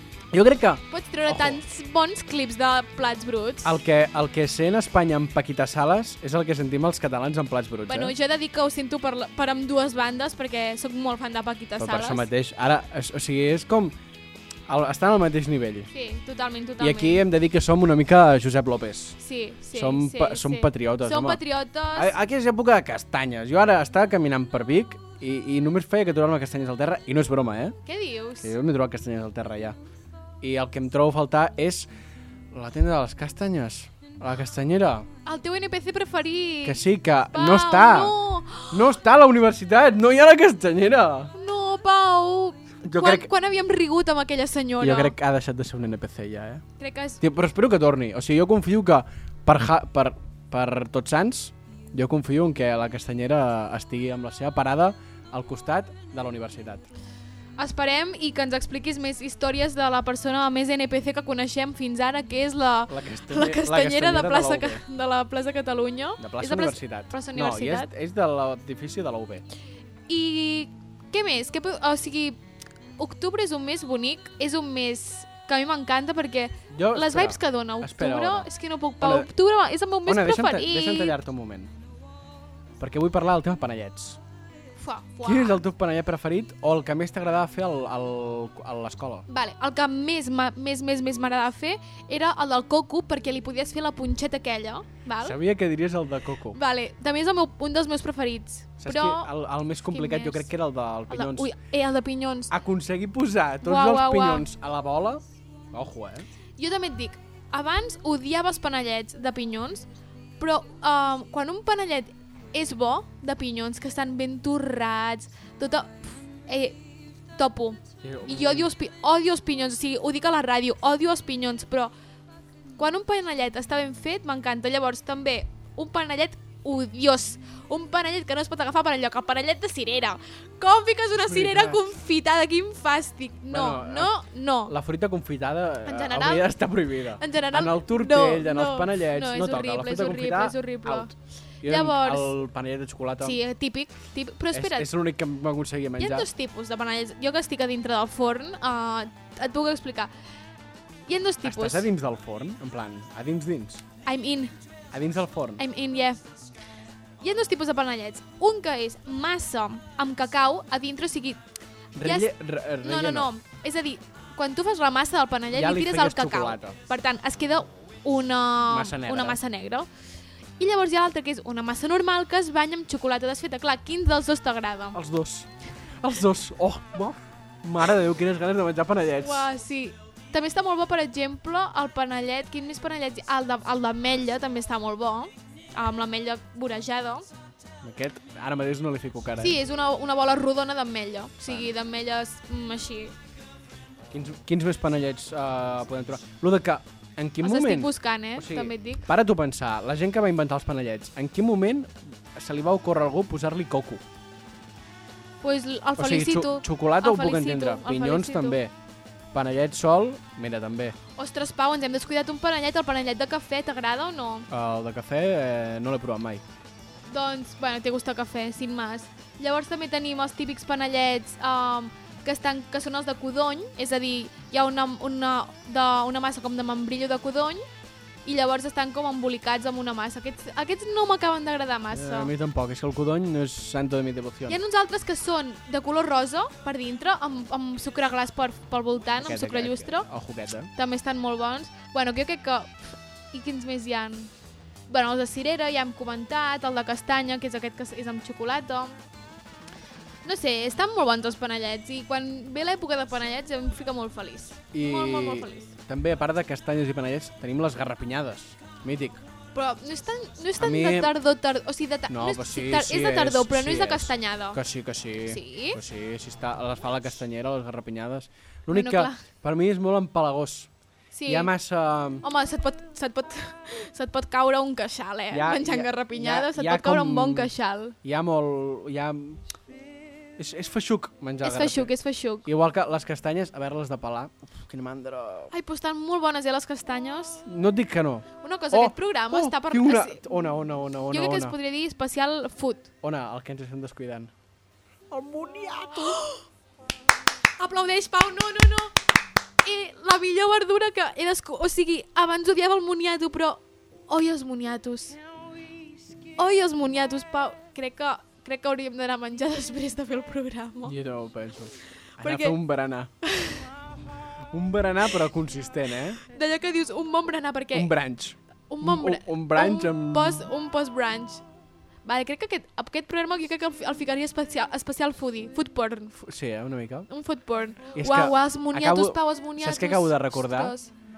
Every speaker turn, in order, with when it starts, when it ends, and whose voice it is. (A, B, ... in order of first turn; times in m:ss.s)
0:00.3-0:01.6 A
0:00.9-0:03.8 B
0:03.6-0:08.2 A
0:07.9-0:12.3 B
0:11.8-0:14.0 A
0:14.7-0:15.9 A
0:15.9-0:17.2 B
0:16.8-0:19.2 A
0:19.2-0:22.1 B
0:19.7-0:21.4 A
0:21.9-0:27.8 A
0:27.9-0:28.5 B
0:28.4-0:29.8 A
0:30.4-0:31.9 A
0:32.5-0:35.1 A
0:35.2-0:38.8 B
0:36.6-0:38.2 A
0:38.7-0:41.3 A
0:41.3-0:45.1 B
0:42.8-0:43.3 A
0:44.8-0:46.6 A
0:46.8-0:47.2 B
0:47.2-0:56.9 A
0:57.6-1:07.9 B
1:02.9-1:04.8 A
1:06.2-1:09.4 A
1:10.1-1:12.4 B
1:13.0-1:21.2 B
1:16.7-1:19.3 A
1:20.1-1:21.7 A
1:22.8-1:24.2 A
1:24.8-1:25.6 B
1:25.2-1:29.3 A
1:29.3-1:35.4 B
1:35.2-1:36.6 A
1:36.5-1:39.3 B
1:38.8-1:41.5 A
1:39.9-1:40.5 B
1:41.1-1:42.5 B
1:42.5-1:46.3 A
1:43.6-1:44.5 B
1:46.6-1:49.9 B
1:50.4-2:01.9 B
1:58.0-1:58.7 A
2:02.8-2:14.7 B
2:11.2-2:11.8 A
2:13.5-2:14.1 A
2:14.7-2:21.1 A
2:15.8-2:16.5 B
2:17.2-2:21.1 B
2:21.6-2:23.4 A
2:21.6-2:22.4 B
2:23.2-2:24.9 B
2:24.5-2:26.3 A
2:26.0-2:30.1 B
2:31.1-2:31.9 B
2:31.4-2:33.8 A
2:34.1-2:34.5 B
2:34.9-2:35.6 A
2:35.6-2:36.2 B
2:37.2-2:41.4 B
2:42.0-2:43.3 A
2:42.0-2:42.3 B
2:42.8-2:49.9 B
2:45.5-2:46.8 A
2:48.7-2:49.4 A
2:50.6-2:55.0 B
2:54.9-2:55.5 A
2:56.0-2:59.5 A
2:59.2-3:07.3 B
3:07.8-3:09.6 A
3:09.4-3:13.1 B
3:11.5-3:11.7 A
3:14.1-3:24.0 A
3:17.4-3:19.0 B
3:25.4-3:28.6 B
3:26.0-3:28.7 A
3:29.3-3:31.0 A
3:31.2-3:34.5 B
3:34.5-3:36.4 A
3:37.1-3:47.7 B
3:48.2-3:52.3 B
3:51.9-3:54.6 A
3:54.5-4:00.1 B
3:59.2-4:00.7 A
4:00.8-4:04.3 B
4:04.9-4:09.0 B
4:10.2-4:15.7 B
4:14.7-4:19.2 A
4:19.5-4:24.6 B
4:20.6-4:21.1 A
4:22.1-4:30.7 A
4:25.3-4:25.8 B
4:28.7-4:29.2 B
4:31.1-4:31.5 B
4:31.3-4:32.2 A
4:32.2-4:38.0 B
4:35.3-4:39.4 A
4:40.4-4:41.9 A
4:41.4-4:42.5 B
4:42.4-4:45.5 A
4:45.5-4:47.4 B
4:47.5-4:51.6 A
4:48.4-4:50.4 B
4:51.1-4:52.9 B
4:53.0-4:54.3 A
4:55.1-4:56.2 A
4:56.1-4:56.4 B
4:57.6-4:58.9 B
4:59.6-5:05.2 B
5:06.4-5:11.0 B
5:10.8-5:13.1 A
5:12.2-5:12.6 B
5:13.2-5:13.7 B
5:14.5-5:16.2 A
5:16.3-5:17.9 B
5:17.7-5:20.5 A
5:18.7-5:21.4 B
5:22.1-5:26.2 B
5:26.2-5:27.1 A
5:27.1-5:30.9 B
5:27.9-5:30.8 A